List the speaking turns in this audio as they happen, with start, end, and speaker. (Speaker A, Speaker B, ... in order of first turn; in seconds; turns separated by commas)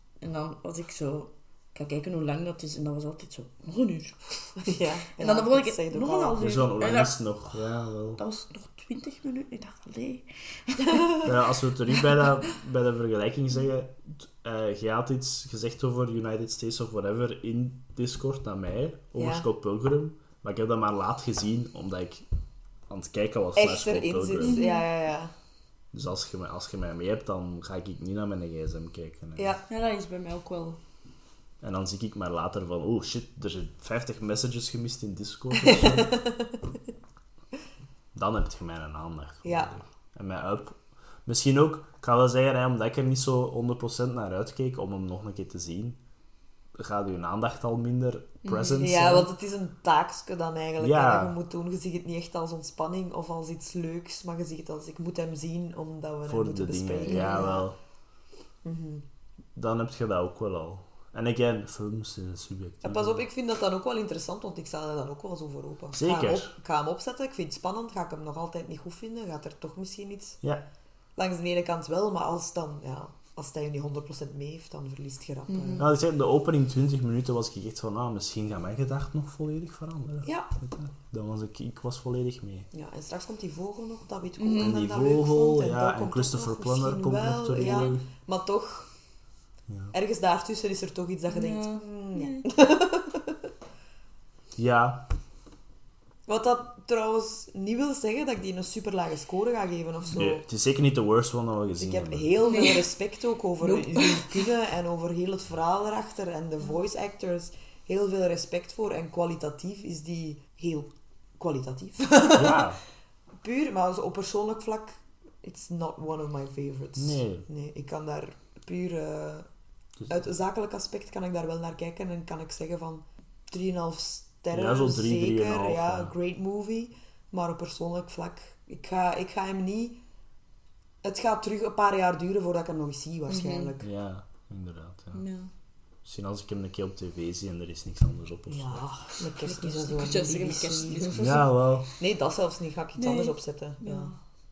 Speaker A: 0.2-7.4, Speaker B: 4.6-6.4, Speaker C: 6.4-8.2, Speaker A: 8.2-11.4, Speaker C: 11.2-22.2, Speaker B: 19.2-19.5, Speaker C: 22.9-24.6, Speaker B: 23.6-25.3, Speaker A: 24.4-24.9, Speaker C: 25.9-29.6, Speaker B: 29.4-29.6, Speaker A: 29.7-30.8, Speaker C: 31.6-36.2, Speaker B: 35.6-36.6, Speaker C: 38.1-46.0, Speaker B: 39.4-39.7, Speaker C: 46.8-49.3, Speaker A: 48.4-48.9, Speaker B: 48.8-57.7, Speaker C: 50.8-51.4, Speaker C: 56.3-57.8, Speaker A: 57.0-57.6, Speaker B: 58.6-59.0, Speaker C: 59.6-63.2, Speaker B: 62.8-70.4, Speaker C: 65.9-66.5, Speaker B: 71.2-75.9, Speaker A: 75.5-75.9, Speaker C: 75.8-82.7, Speaker B: 80.2-80.5, Speaker B: 82.7-88.9, Speaker A: 84.4-84.8, Speaker C: 84.6-88.0, Speaker A: 87.6-87.9, Speaker B: 89.9-93.4, Speaker A: 91.3-92.5, Speaker C: 94.6-95.1, Speaker B: 96.3-100.4, Speaker C: 100.1-102.4, Speaker B: 101.8-112.7, Speaker A: 102.5-102.9, Speaker A: 103.6-104.5, Speaker C: 112.3-112.8, Speaker B: 113.4-119.5, Speaker C: 117.0-117.5, Speaker B: 120.1-130.0, Speaker C: 124.5-126.1, Speaker B: 131.0-133.9, Speaker A: 133.3-133.7, Speaker C: 133.8-135.2, Speaker A: 135.1-135.5, Speaker C: 136.1-138.8, Speaker B: 138.5-141.3, Speaker A: 139.3-141.5, Speaker C: 141.2-141.9, Speaker B: 142.0-144.1, Speaker A: 143.0-144.2